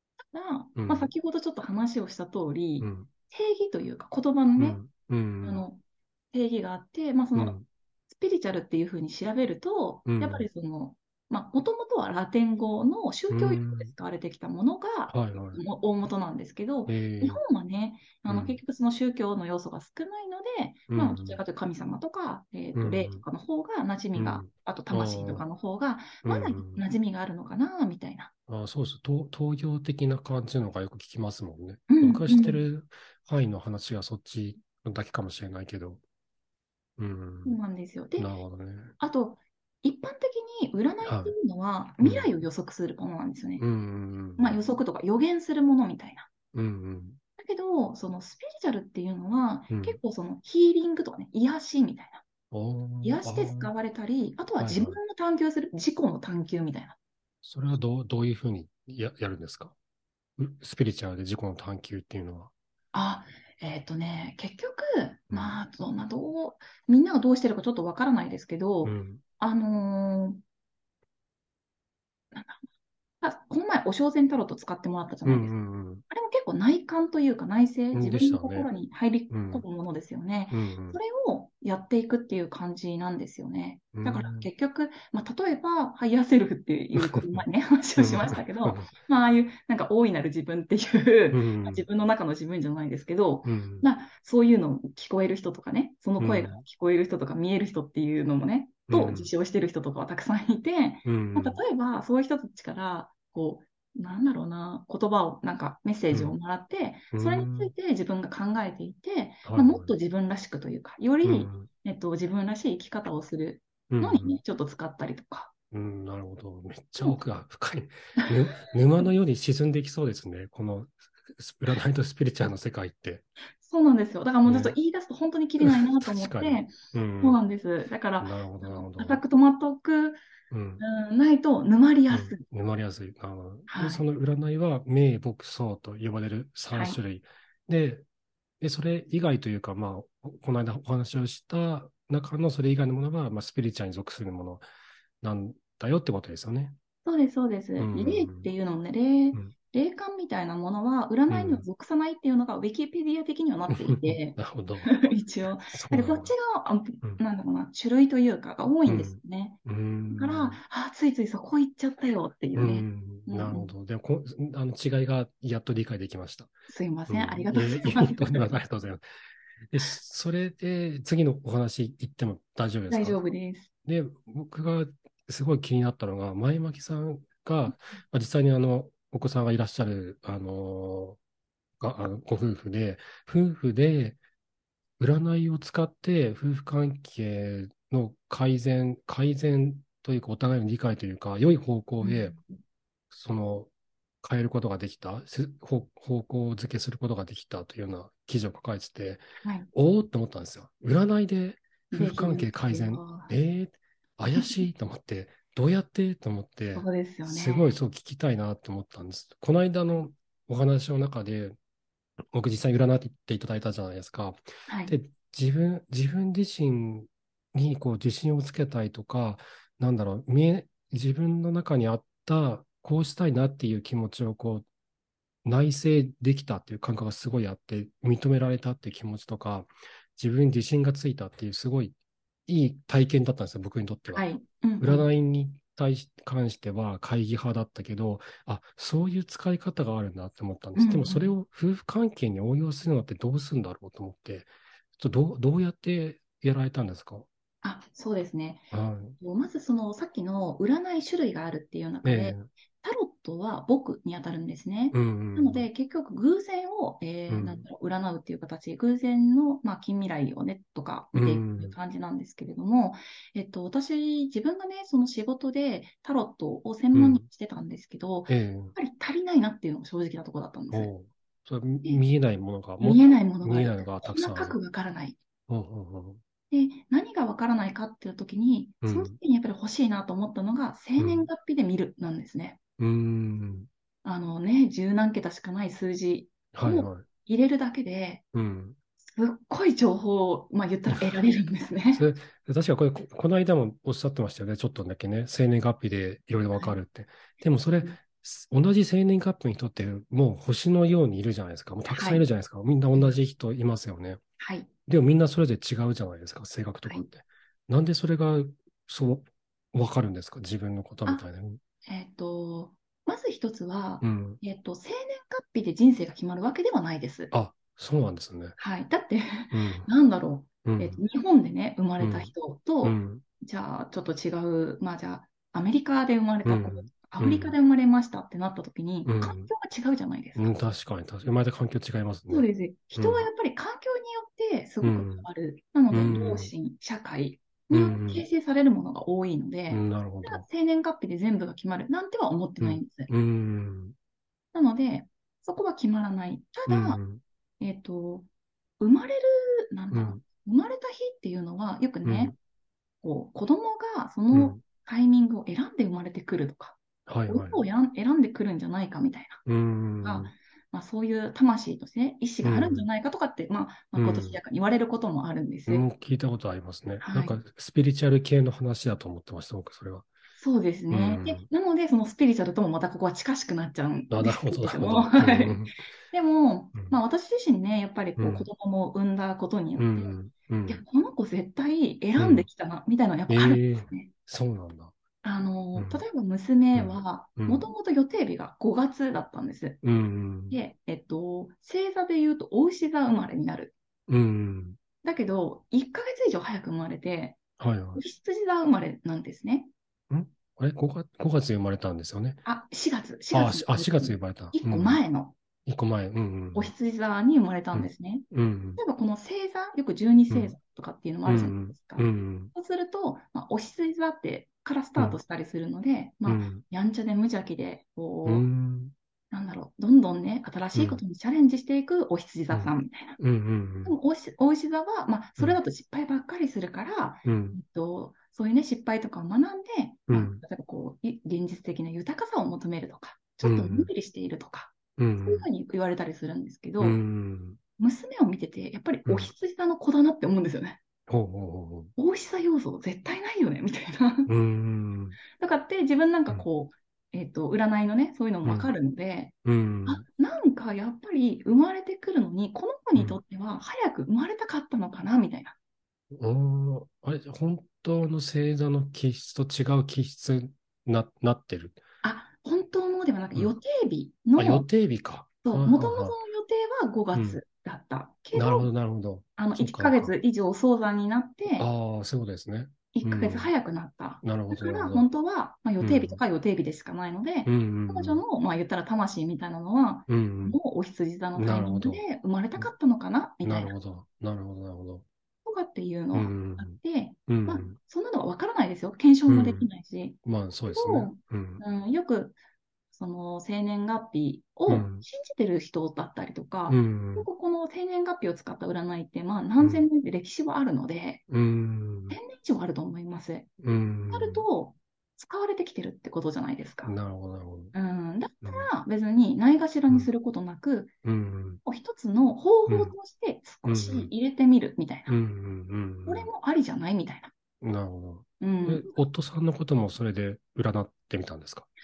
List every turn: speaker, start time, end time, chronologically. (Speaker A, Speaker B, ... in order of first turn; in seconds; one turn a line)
Speaker A: 0.3-4.8
Speaker B: 0.8-1.1
Speaker B: 2.8-3.1
Speaker B: 4.6-5.7
Speaker A: 5.4-5.8
Speaker A: 6.3-7.6
Speaker B: 7.3-7.7
Speaker A: 8.1-28.3
Speaker B: 10.1-10.5
Speaker B: 13.3-13.9
Speaker B: 15.1-15.6
Speaker B: 16.9-17.4
Speaker B: 18.3-18.6
Speaker B: 20.9-21.4
Speaker B: 22.8-23.2
Speaker B: 24.1-25.4
Speaker B: 26.2-26.8
Speaker B: 28.5-36.0
Speaker A: 31.9-32.6
Speaker B: 37.0-37.6
Speaker A: 37.5-38.3
Speaker B: 38.2-39.0
Speaker A: 39.0-43.6
Speaker B: 41.0-41.4
Speaker B: 42.0-42.3
Speaker B: 43.6-44.6
Speaker A: 44.4-46.3
Speaker B: 46.5-47.2
Speaker A: 47.4-52.2
Speaker B: 49.7-50.0
Speaker B: 52.5-53.7
Speaker A: 53.0-57.0
Speaker B: 54.6-55.0
Speaker B: 57.4-59.8
Speaker B: 60.4-62.5
Speaker A: 62.9-70.4
Speaker B: 65.3-65.5
Speaker B: 68.8-69.2
Speaker A: 72.3-72.7
Speaker A: 73.2-75.5
Speaker B: 75.2-76.0
Speaker A: 76.1-115.5
Speaker B: 77.9-78.7
Speaker B: 79.3-79.7
Speaker B: 80.5-81.0
Speaker B: 83.9-84.5
Speaker B: 87.0-87.5
Speaker B: 88.0-88.9
Speaker B: 91.3-91.8
Speaker B: 93.5-93.9
Speaker B: 96.2-96.6
Speaker B: 98.9-99.3
Speaker B: 101.0-101.6
Speaker B: 107.1-107.7
Speaker B: 109.5-109.9
Speaker B: 111.2-111.7
Speaker B: 113.9-114.4
Speaker B: 115.7-123.3
Speaker A: 123.6-130.2
Speaker B: 124.5-124.8
Speaker B: 125.6-127.4
Speaker B: 128.2-129.2
Speaker B: 130.5-130.8
Speaker A: 130.8-132.4
Speaker B: 132.1-138.0
Speaker A: 133.7-134.1
Speaker A: 136.7-137.0
Speaker B: 138.6-144.6
Speaker B: 145.2-146.8
Speaker A: 147.1-159.6
Speaker B: 147.8-148.5
Speaker B: 151.3-151.7
Speaker B: 153.7-154.9
Speaker B: 155.7-156.3
Speaker B: 158.8-160.6
Speaker A: 160.1-163.7
Speaker B: 162.6-166.6
Speaker A: 166.7-168.5
Speaker B: 167.1-169.0
Speaker B: 169.7-173.2
Speaker A: 172.9-173.7
Speaker B: 173.8-181.2
Speaker B: 181.8-184.2
Speaker B: 185.0-192.4
Speaker A: 192.0-192.6
Speaker B: 193.1-193.7
Speaker B: 194.2-211.6
Speaker A: 199.4-199.7
Speaker A: 201.9-203.3
Speaker A: 204.3-204.7
Speaker A: 206.7-207.7
Speaker B: 212.3-224.7
Speaker A: 214.7-215.0
Speaker B: 225.4-234.3
Speaker A: 234.2-235.1
Speaker B: 234.8-247.3
Speaker A: 240.8-241.3
Speaker A: 247.6-270.9
Speaker B: 248.7-249.2
Speaker B: 252.0-252.5
Speaker B: 254.9-255.7
Speaker B: 257.3-257.7
Speaker B: 261.1-261.8
Speaker B: 266.9-267.2
Speaker B: 268.3-268.8
Speaker B: 270.7-274.6
Speaker A: 272.8-275.2
Speaker B: 275.5-276.2
Speaker A: 276.5-282.6
Speaker B: 278.8-279.2
Speaker B: 281.0-281.3
Speaker B: 282.8-283.7
Speaker A: 284.0-288.2
Speaker B: 286.5-287.1
Speaker B: 288.3-288.8
Speaker A: 289.0-292.1
Speaker B: 290.9-291.2
Speaker B: 291.9-304.2
Speaker A: 301.9-302.2
Speaker A: 304.4-304.7
Speaker B: 304.9-311.6
Speaker A: 311.9-317.3
Speaker B: 314.0-314.4
Speaker B: 317.3-318.6
Speaker A: 318.6-330.5
Speaker B: 319.5-319.9
Speaker B: 320.6-321.0
Speaker B: 322.0-323.2
Speaker B: 326.4-327.6
Speaker B: 329.1-329.5
Speaker B: 330.4-333.3
Speaker A: 332.3-343.1
Speaker B: 334.8-335.3
Speaker B: 335.9-336.5
Speaker B: 337.7-338.2
Speaker B: 339.7-340.4
Speaker B: 342.6-343.9
Speaker A: 344.5-347.0
Speaker B: 346.7-347.2
Speaker A: 347.6-348.3
Speaker A: 348.8-352.4
Speaker B: 349.9-350.2
Speaker B: 352.0-352.4
Speaker A: 353.0-359.4
Speaker B: 354.3-354.6
Speaker B: 357.1-357.6
Speaker B: 359.5-360.3
Speaker A: 360.0-365.9
Speaker B: 362.4-362.9
Speaker B: 363.9-364.4
Speaker B: 365.7-370.1
Speaker A: 367.0-367.4
Speaker A: 370.4-384.1
Speaker B: 370.9-371.5
Speaker B: 374.1-375.8
Speaker B: 378.2-378.5
Speaker B: 379.8-380.8
Speaker B: 382.2-382.5
Speaker B: 383.3-384.9
Speaker A: 385.2-389.8
Speaker B: 385.8-386.0
Speaker B: 386.7-387.7
Speaker B: 389.8-390.6
Speaker A: 390.5-393.7
Speaker B: 394.1-394.8
Speaker A: 395.0-397.4
Speaker B: 397.6-398.0
Speaker A: 397.9-399.7
Speaker B: 400.1-402.4
Speaker A: 402.4-405.4
Speaker B: 403.3-405.0
Speaker B: 405.6-406.7
Speaker A: 406.5-418.5
Speaker B: 407.7-408.8
Speaker B: 410.3-410.6
Speaker B: 411.2-412.5
Speaker B: 416.3-416.6
Speaker B: 418.2-418.9
Speaker A: 419.3-423.2
Speaker B: 420.7-421.0
Speaker B: 422.5-424.0
Speaker A: 423.9-437.0
Speaker B: 427.2-427.6
Speaker B: 430.1-430.4
Speaker B: 433.4-433.9
Speaker B: 435.0-435.5
Speaker B: 436.8-437.6
Speaker A: 437.8-440.8
Speaker B: 439.1-439.3
Speaker B: 441.1-441.9
Speaker A: 442.0-444.3
Speaker B: 444.3-445.2
Speaker A: 445.4-449.3
Speaker B: 448.4-448.7
Speaker B: 449.4-450.0
Speaker A: 449.9-455.6
Speaker B: 452.9-453.2
Speaker B: 456.2-461.8
Speaker A: 462.0-464.7
Speaker B: 464.4-466.2
Speaker A: 465.4-468.7
Speaker B: 467.1-467.4
Speaker B: 468.3-470.1
Speaker A: 469.4-471.7
Speaker B: 471.6-473.5
Speaker A: 472.9-483.8
Speaker B: 474.2-475.1
Speaker B: 475.8-476.2
Speaker B: 477.4-478.2
Speaker B: 480.1-480.6
Speaker B: 481.4-482.0
Speaker B: 483.4-485.1
Speaker A: 485.4-492.4
Speaker B: 486.1-487.8
Speaker B: 489.3-489.7
Speaker B: 490.2-491.6
Speaker A: 492.9-501.2
Speaker B: 494.7-495.1
Speaker B: 496.7-497.3
Speaker B: 499.6-499.9
Speaker B: 501.3-502.2
Speaker A: 502.1-503.5
Speaker B: 503.6-504.5
Speaker A: 504.1-506.9
Speaker B: 506.8-507.7
Speaker A: 507.7-510.9
Speaker B: 508.4-508.7
Speaker B: 511.0-511.6
Speaker A: 511.6-515.2
Speaker B: 512.7-513.0
Speaker B: 513.6-514.1
Speaker B: 515.1-516.3
Speaker A: 516.1-517.3
Speaker B: 517.6-521.7
Speaker A: 518.4-518.9